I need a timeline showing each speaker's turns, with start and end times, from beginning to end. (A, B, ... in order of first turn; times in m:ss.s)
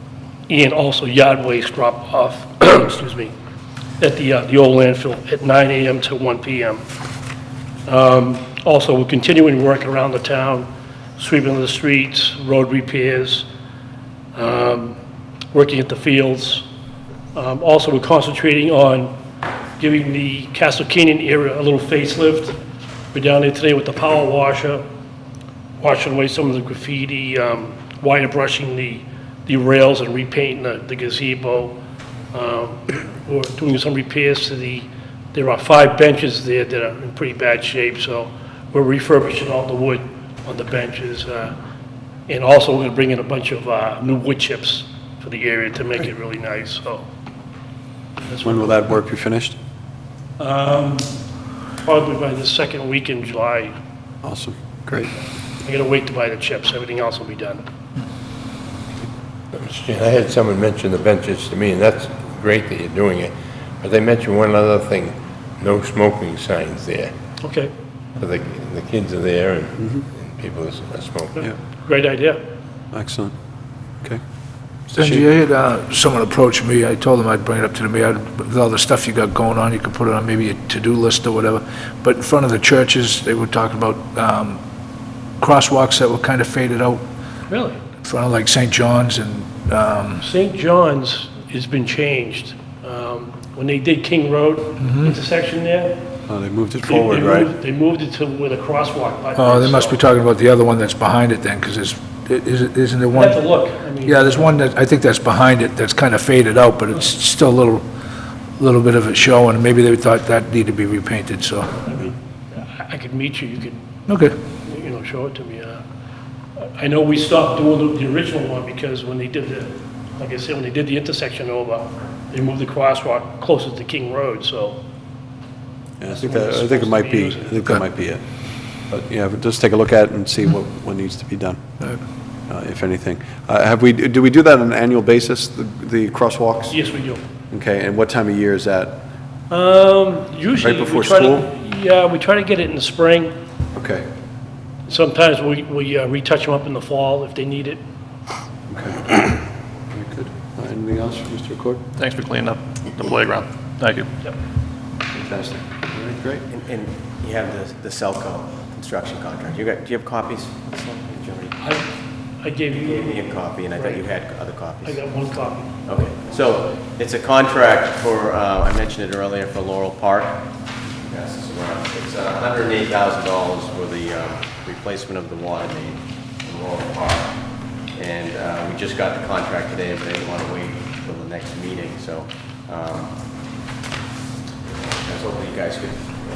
0:00.5-0:03.3 A
0:04.0-0:06.8 A
0:07.9-0:13.5 A
0:14.4-0:15.0 A
0:15.5-0:16.7 A
0:17.3-0:19.2 A
0:19.8-0:22.6 A
0:23.1-0:24.8 A
0:25.8-0:31.8 A
0:32.3-0:41.6 A
0:42.3-0:47.0 A
0:48.3-0:48.9 A
0:48.4-0:49.6 B
0:50.4-0:51.1 A
0:51.8-0:53.8 A
0:54.2-0:55.1 B
0:55.6-0:57.6 A
0:59.5-1:07.1 C
1:07.4-1:07.7 A
1:08.2-1:11.4 C
1:11.4-1:12.4 A
1:12.9-1:13.3 B
1:14.9-1:15.3 B
1:14.9-1:24.6 D
1:25.4-1:27.0 D
1:27.5-1:27.8 A
1:28.0-1:30.2 D
1:30.2-1:36.0 A
1:34.8-1:35.1 D
1:36.3-1:37.0 B
1:36.8-1:40.0 A
1:36.9-1:37.5 C
1:39.4-1:43.4 D
1:43.1-1:44.5 A
1:44.0-1:47.8 D
1:48.6-1:52.0 D
1:51.8-1:53.8 A
1:54.1-1:54.4 D
1:54.6-1:55.8 A
1:56.6-2:04.8 A
2:06.0-2:08.2 B
2:06.0-2:07.8 A
2:08.9-2:11.6 B
2:12.5-2:16.8 B
2:16.7-2:17.3 A
2:17.5-2:19.0 B
2:19.5-2:23.4 A
2:20.6-2:21.5 B
2:23.8-2:24.1 B
2:24.9-2:27.8 A
2:28.7-2:31.8 B
2:32.0-2:34.1 E
2:35.1-2:36.4 B
2:36.5-2:41.6 F
2:41.6-2:44.1 A
2:42.8-2:45.0 F
2:44.8-2:45.8 A
2:45.9-2:50.4 F
2:51.0-3:03.2 F
3:05.0-3:06.1 F